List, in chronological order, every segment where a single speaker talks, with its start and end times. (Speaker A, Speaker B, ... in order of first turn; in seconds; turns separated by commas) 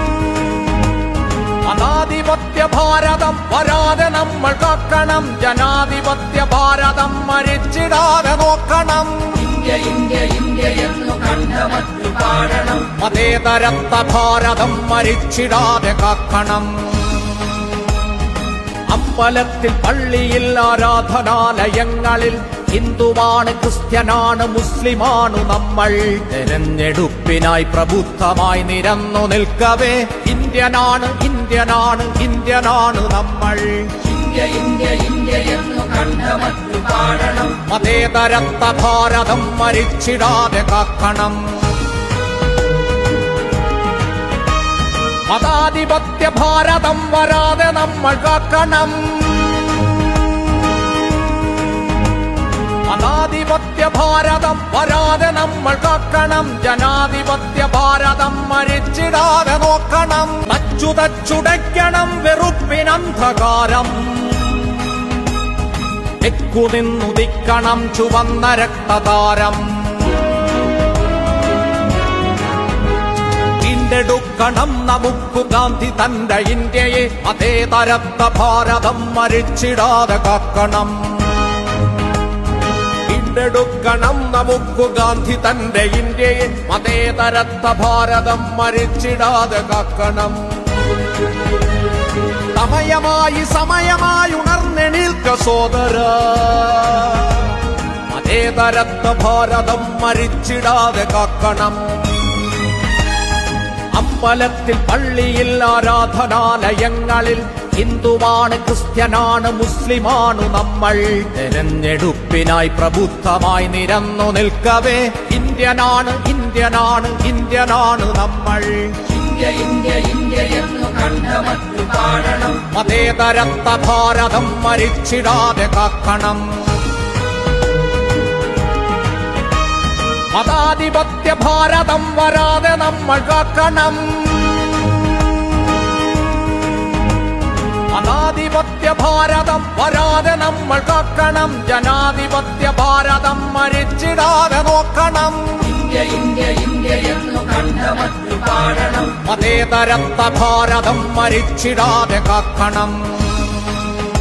Speaker A: 1.6-9.6, Speaker B: 9.6-12.5, Speaker A: 12.5-17.8, Speaker A: 18.9-34.3, Speaker B: 34.4-37.3, Speaker A: 37.3-41.8, Speaker A: 45.3-50.1, Speaker A: 52.8-64.8, Speaker A: 66.2-70.4, Speaker A: 73.6-81.5, Speaker A: 83.1-90.7, Speaker A: 92.5-97.6, Speaker A: 98.1-102.4, Speaker A: 103.9-119.3, Speaker B: 119.5-122.3, Speaker A: 122.3-126.9, Speaker A: 130.3-135.0, Speaker A: 137.9-145.9, Speaker B: 146.0-148.9, Speaker A: 148.9-153.9